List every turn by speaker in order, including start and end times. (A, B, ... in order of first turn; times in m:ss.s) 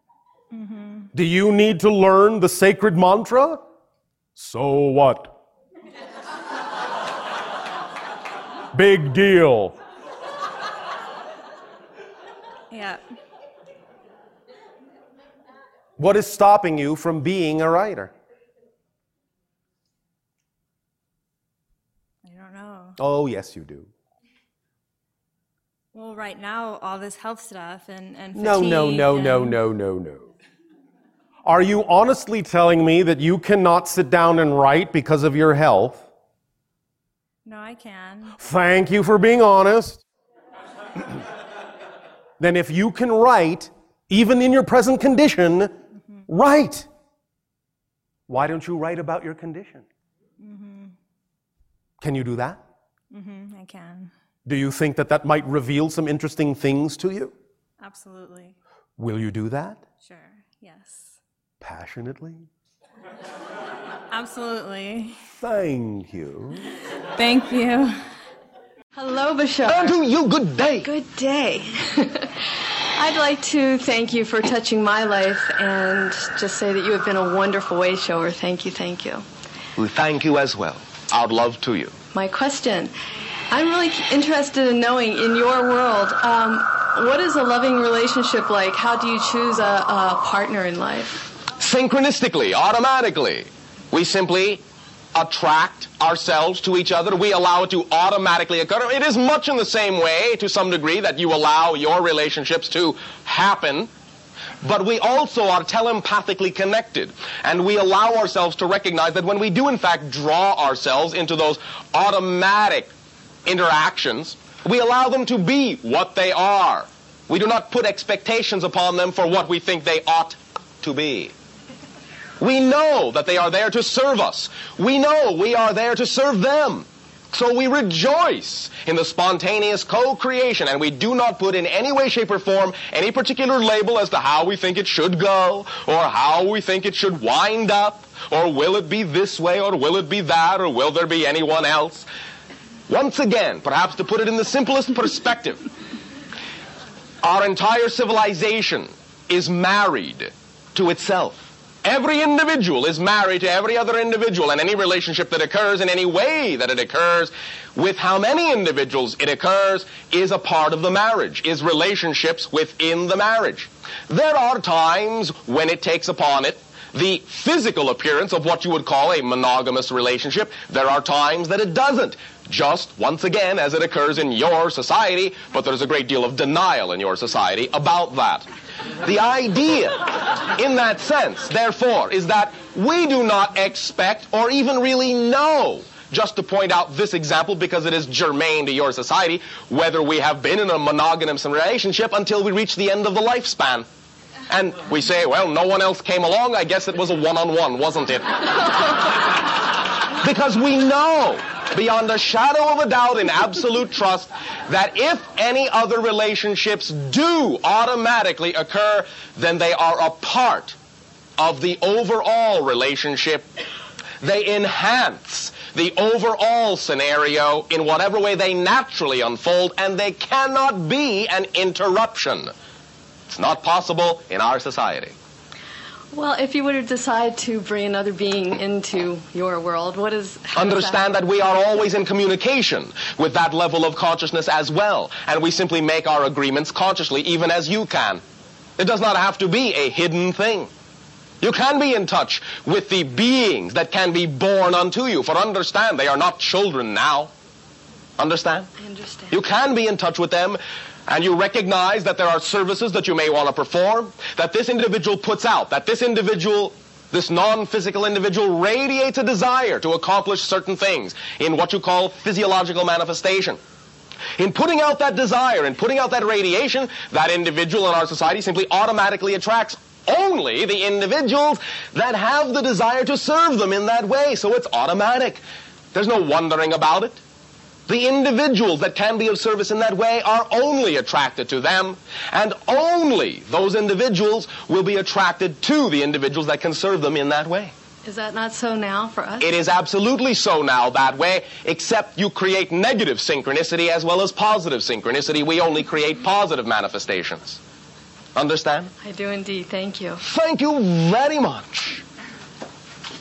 0:00.5-0:01.1 A
0:01.1-0:03.6 B
0:04.4-0:05.4 B
0:08.7-0:09.8 B
0:12.7-0:13.0 A
0:16.0-0:18.1 B
0:22.2-0:23.0 A
0:23.0-0:23.9 B
0:25.9-0:29.6 A
0:28.3-0:30.3 B
0:31.4-0:36.1 B
0:37.4-0:38.4 A
0:38.4-0:40.0 B
0:42.4-0:45.7 B
0:46.3-0:46.9 B
0:48.3-0:49.8 B
0:50.4-0:51.0 A
0:52.0-0:52.6 B
0:53.1-0:54.1 A
0:54.4-0:57.3 B
0:57.8-0:58.6 A
0:59.0-0:59.8 B
1:00.0-1:01.2 A
1:01.6-1:02.5 B
1:04.1-1:05.2 A
1:05.4-1:06.7 B
1:07.1-1:08.0 A
1:08.9-1:10.0 C
1:09.7-1:10.9 D
1:10.8-1:19.2 C
1:19.8-1:22.0 D
1:22.1-1:22.9 C
1:23.5-1:31.3 C
1:31.6-1:34.6 D
1:35.1-1:43.9 D
1:44.6-1:52.9 D
1:53.4-2:01.3 D
2:02.4-2:22.0 D
2:22.9-2:25.6 D
2:27.2-2:58.5 D
2:59.0-3:13.8 D
3:14.5-3:19.3 D
3:20.2-3:30.8 D
3:31.4-3:33.5 D
3:34.2-3:42.5 D
3:43.3-3:45.1 D
3:46.1-3:51.0 C
3:50.5-3:58.2 D
3:58.8-4:00.7 D
4:01.4-4:07.3 D
4:08.2-4:08.7 D
4:08.8-4:09.4 C
4:09.3-4:23.6 D
4:24.4-4:35.4 D
4:35.9-4:37.2 D
4:37.9-4:47.7 D
4:48.0-4:49.5 C
4:49.4-4:57.6 D
4:58.3-4:58.9 D
4:59.0-5:00.2 C
5:00.2-5:02.0 D